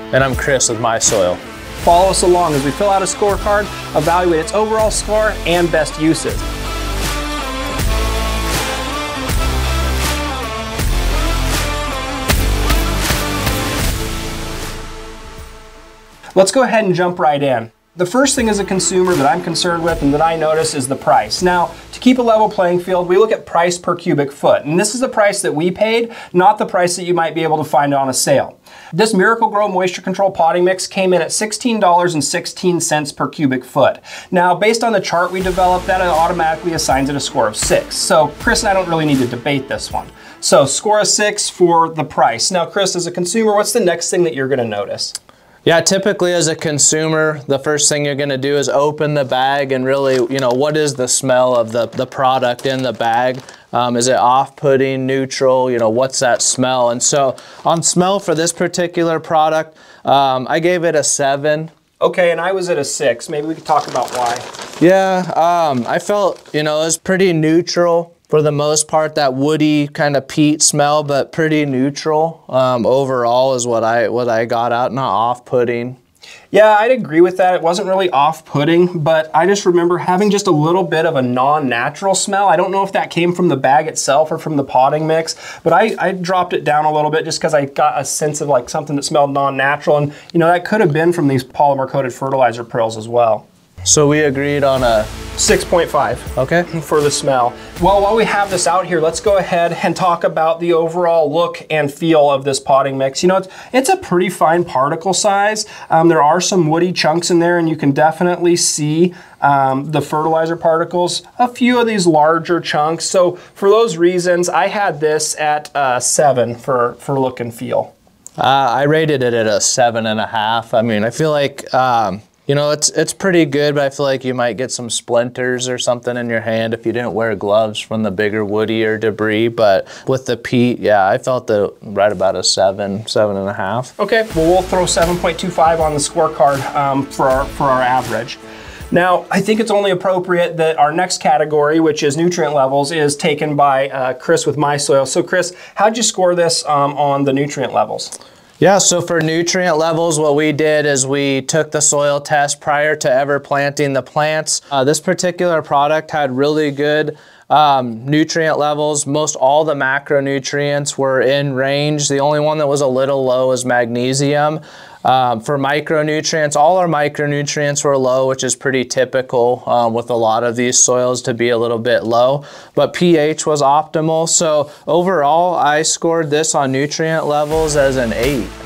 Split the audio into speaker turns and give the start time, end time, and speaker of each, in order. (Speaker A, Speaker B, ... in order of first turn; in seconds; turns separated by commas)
Speaker A: 0.1-1.4, Speaker B: 1.8-6.4, Speaker B: 16.4-45.2, Speaker A: 45.6-61.7, Speaker B: 62.0-64.5, Speaker A: 64.8-76.0, Speaker B: 76.5-93.5, Speaker A: 93.8-95.1, Speaker B: 95.4-117.9, Speaker A: 96.4-96.7, Speaker A: 118.4-133.9, Speaker B: 134.0-138.4, Speaker B: 138.9-148.1, Speaker A: 148.6-178.6